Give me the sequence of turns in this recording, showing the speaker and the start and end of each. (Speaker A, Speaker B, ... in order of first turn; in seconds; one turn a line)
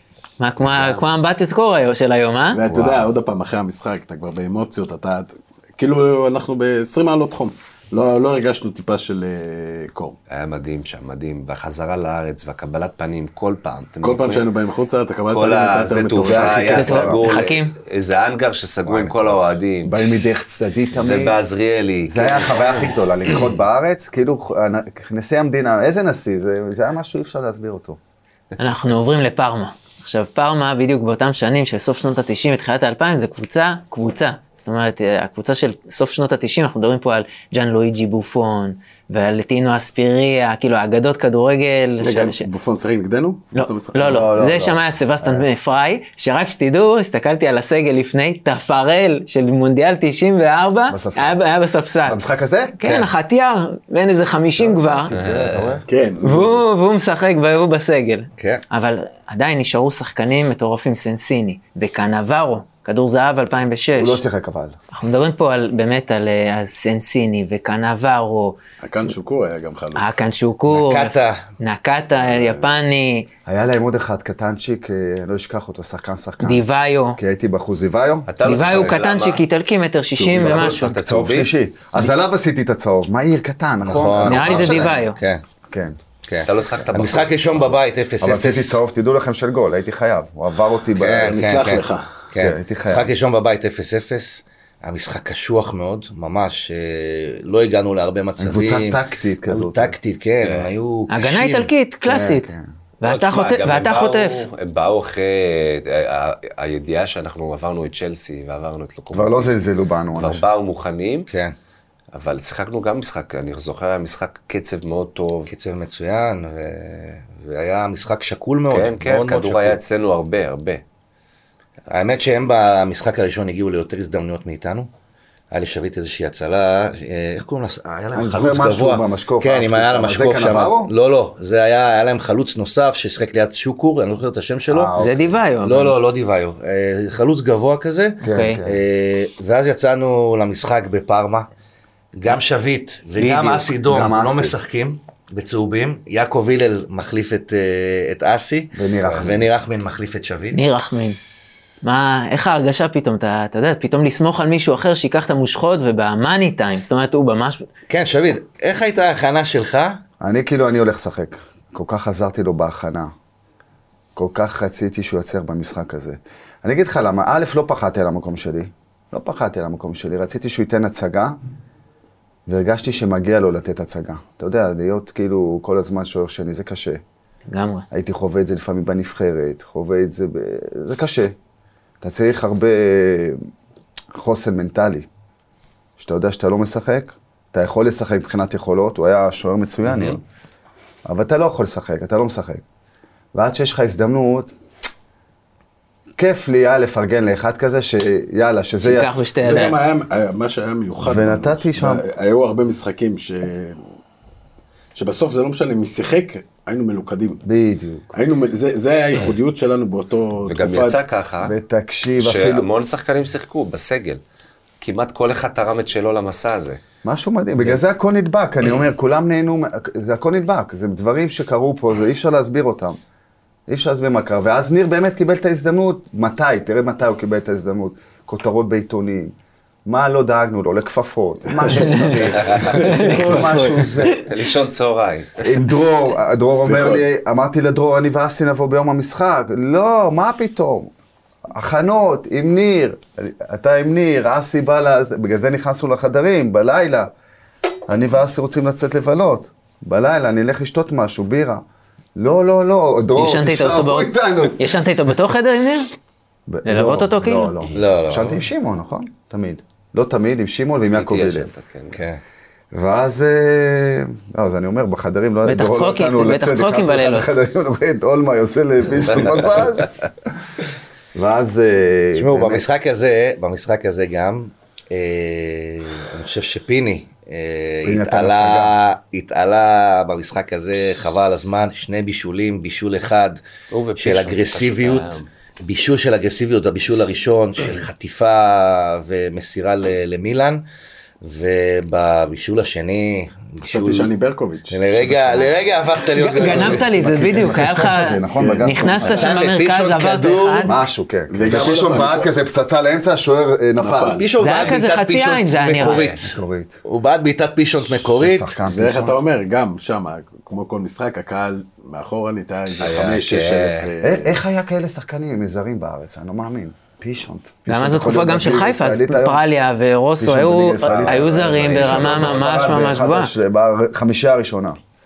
Speaker A: 0.4-2.6
Speaker B: 2.5-10.2
Speaker C: 2.7-3.0
Speaker D: 10.3-14.5
Speaker B: 14.0-17.0
Speaker D: 15.3-20.0
Speaker C: 16.2-17.2
Speaker A: 16.7-17.7
Speaker C: 19.8-21.4
Speaker D: 20.9-22.9
Speaker C: 22.1-28.0
Speaker A: 28.6-42.5
Speaker B: 42.0-44.1
Speaker A: 43.5-52.2
Speaker C: 44.0-45.5
Speaker C: 50.9-51.4
Speaker C: 52.0-52.8
Speaker A: 52.8-55.1
Speaker E: 52.8-53.1
Speaker C: 54.6-55.8
Speaker D: 55.1-55.8
Speaker B: 55.9-56.6
Speaker A: 56.2-64.2
Speaker E: 58.4-58.6
Speaker C: 64.0-64.8
Speaker A: 64.9-68.6
Speaker B: 68.8-70.2
Speaker A: 69.9-73.3
Speaker E: 70.7-71.4
Speaker C: 73.5-76.6
Speaker A: 76.4-77.2
Speaker C: 77.2-78.3
Speaker D: 78.3-79.4
Speaker A: 78.4-81.0
Speaker D: 80.3-81.5
Speaker C: 80.4-85.0
Speaker E: 83.8-85.4
Speaker A: 84.2-85.2
Speaker C: 85.7-86.0
Speaker E: 86.3-88.8
Speaker D: 86.4-87.8
Speaker C: 88.2-91.4
Speaker E: 91.0-101.7
Speaker B: 91.2-92.2
Speaker C: 92.3-93.1
Speaker C: 98.4-99.9
Speaker D: 100.4-100.7
Speaker A: 101.1-104.5
Speaker C: 102.0-102.7
Speaker D: 103.0-109.5
Speaker C: 109.1-110.4
Speaker D: 110.1-111.3
Speaker E: 111.3-111.5
Speaker D: 112.1-115.5
Speaker E: 115.5-119.8
Speaker D: 118.7-120.8
Speaker E: 121.9-124.9
Speaker E: 125.5-134.9
Speaker C: 128.1-130.9
Speaker C: 134.7-135.3
Speaker A: 135.0-135.9
Speaker E: 135.6-141.5
Speaker C: 138.2-138.8
Speaker A: 138.2-138.6
Speaker E: 142.2-150.6
Speaker A: 143.2-143.6
Speaker C: 143.8-144.5
Speaker C: 148.7-149.5
Speaker A: 150.5-151.2
Speaker A: 151.8-157.7
Speaker E: 157.9-160.0
Speaker C: 160.2-163.1
Speaker C: 164.2-171.4
Speaker C: 172.5-177.0
Speaker A: 177.5-177.8
Speaker C: 177.9-181.3
Speaker C: 182.0-183.4
Speaker C: 184.1-185.1
Speaker C: 186.0-190.2
Speaker C: 191.1-192.6
Speaker C: 193.3-194.5
Speaker C: 196.2-199.2
Speaker A: 198.8-199.8
Speaker B: 199.4-203.8
Speaker C: 201.0-202.0
Speaker B: 204.9-207.4
Speaker C: 207.4-208.1
Speaker B: 208.1-211.0
Speaker D: 210.4-211.6
Speaker C: 211.4-212.7
Speaker D: 212.2-214.2
Speaker D: 214.8-216.8
Speaker C: 217.0-223.0
Speaker C: 223.7-229.3
Speaker C: 229.8-234.2
Speaker A: 231.7-234.2
Speaker D: 232.4-232.8
Speaker D: 234.1-235.6
Speaker C: 235.4-240.9
Speaker B: 236.5-237.0
Speaker C: 241.5-247.1
Speaker C: 247.9-251.6
Speaker C: 252.2-254.7
Speaker A: 253.2-255.9
Speaker C: 256.5-261.5
Speaker A: 256.6-257.5
Speaker E: 257.8-258.4
Speaker D: 260.9-262.0
Speaker E: 261.9-262.2
Speaker C: 262.7-269.9
Speaker A: 265.4-267.3
Speaker D: 269.1-269.9
Speaker C: 271.1-272.7
Speaker E: 272.1-283.4
Speaker C: 277.8-278.7
Speaker D: 283.7-285.2
Speaker E: 284.0-290.6
Speaker E: 291.2-294.1
Speaker B: 293.6-295.5
Speaker E: 294.7-296.9
Speaker A: 296.1-300.8
Speaker C: 296.4-299.3
Speaker B: 298.3-299.2
Speaker E: 299.1-300.8
Speaker C: 300.6-304.2
Speaker B: 301.3-302.3
Speaker B: 303.8-304.3
Speaker E: 304.1-308.5
Speaker A: 304.4-306.1
Speaker D: 305.8-306.2
Speaker C: 306.2-306.8
Speaker C: 308.0-309.2
Speaker B: 308.7-314.4
Speaker D: 312.8-313.9
Speaker E: 313.0-313.3
Speaker C: 314.0-319.4
Speaker A: 317.7-323.3
Speaker C: 320.2-324.8
Speaker E: 320.9-322.5